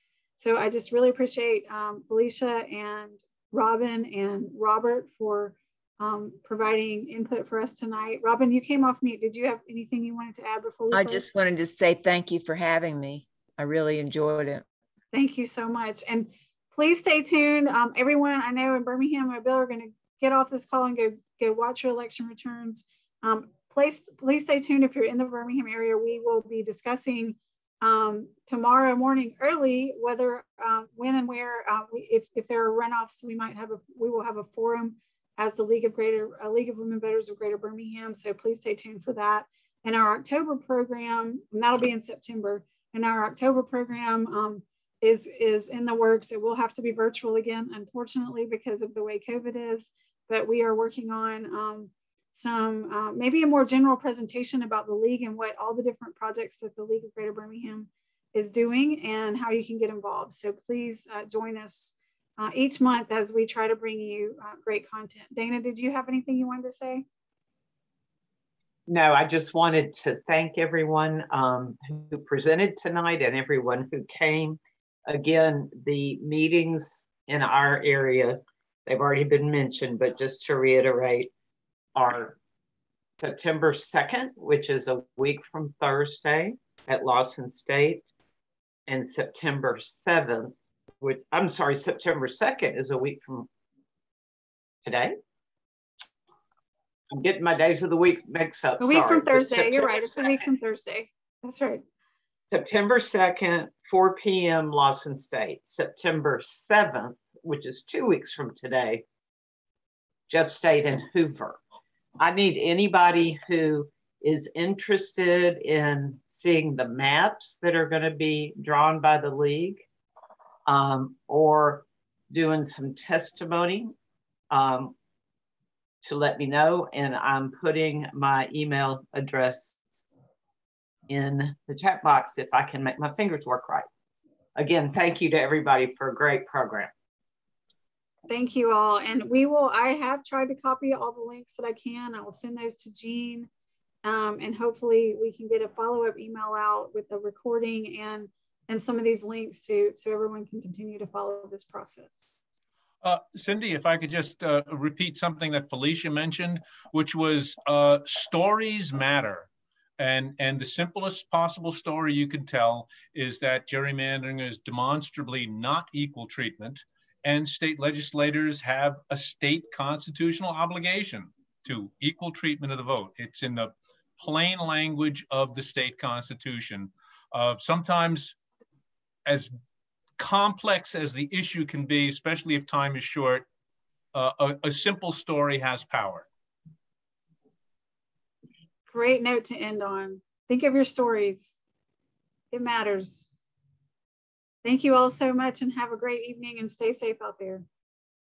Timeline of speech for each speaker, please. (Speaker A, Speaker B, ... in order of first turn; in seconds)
Speaker A: 0.4-11.3, 15.1-67.0, 98.8-101.8, 138.3-143.5, 144.0-152.3, 188.9-191.6, 192.5-193.3, 194.6-197.6
Speaker B: 10.9-14.6
Speaker C: 68.9-81.3, 82.0-82.4, 83.2-88.0, 88.9-93.5, 94.8-95.1, 97.1-100.4, 102.5-109.0, 110.3-111.6, 112.2-119.8, 120.7-123.9, 124.5-124.9, 126.0-130.0, 131.1-133.9, 134.6-136.9
Speaker D: 153.0-159.5, 160.0-178.3, 179.2-179.5, 180.2-183.4, 184.1-186.2